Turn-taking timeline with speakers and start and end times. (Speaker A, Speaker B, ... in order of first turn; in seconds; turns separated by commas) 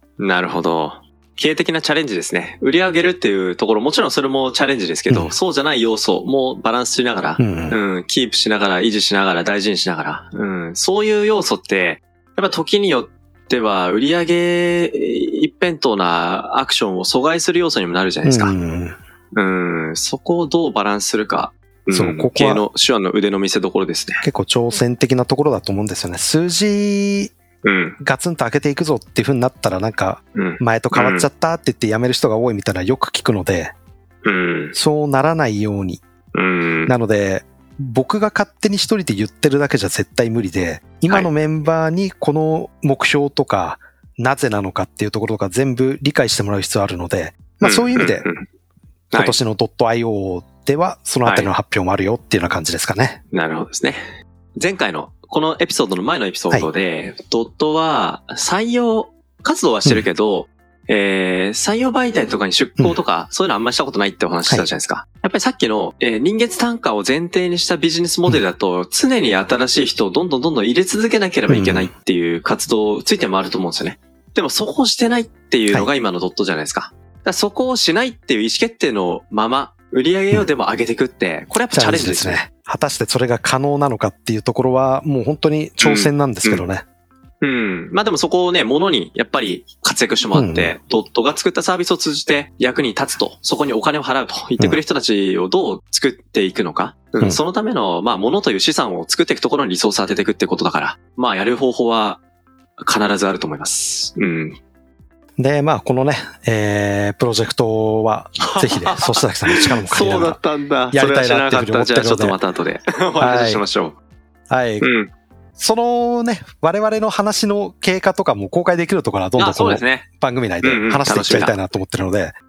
Speaker A: 0.2-18.6, Speaker B: 5.1-5.3, Speaker B: 7.4-7.8, Speaker B: 18.2-19.0, Speaker A: 19.4-24.3, Speaker B: 21.9-22.7, Speaker B: 24.2-27.3, Speaker A: 27.6-28.0, Speaker B: 28.0-33.7, Speaker A: 30.4-31.3, Speaker A: 34.2-34.8, Speaker B: 34.8-36.0, Speaker A: 36.3-36.9, Speaker B: 36.9-48.3, Speaker A: 47.6-48.4, Speaker B: 49.1-53.2, Speaker A: 51.2-51.5, Speaker A: 53.3-54.0, Speaker A: 54.6-82.4, Speaker B: 71.5-71.9, Speaker B: 81.7-86.8, Speaker A: 85.8-86.6, Speaker A: 87.4-102.2, Speaker B: 90.3-90.7, Speaker A: 102.8-104.6, Speaker B: 105.4-110.4, Speaker A: 108.4-114.0, Speaker B: 110.9-112.4, Speaker B: 113.2-113.6, Speaker B: 114.5-114.9, Speaker A: 114.8-115.1, Speaker B: 115.6-122.3, Speaker A: 119.4-120.1, Speaker A: 120.6-121.6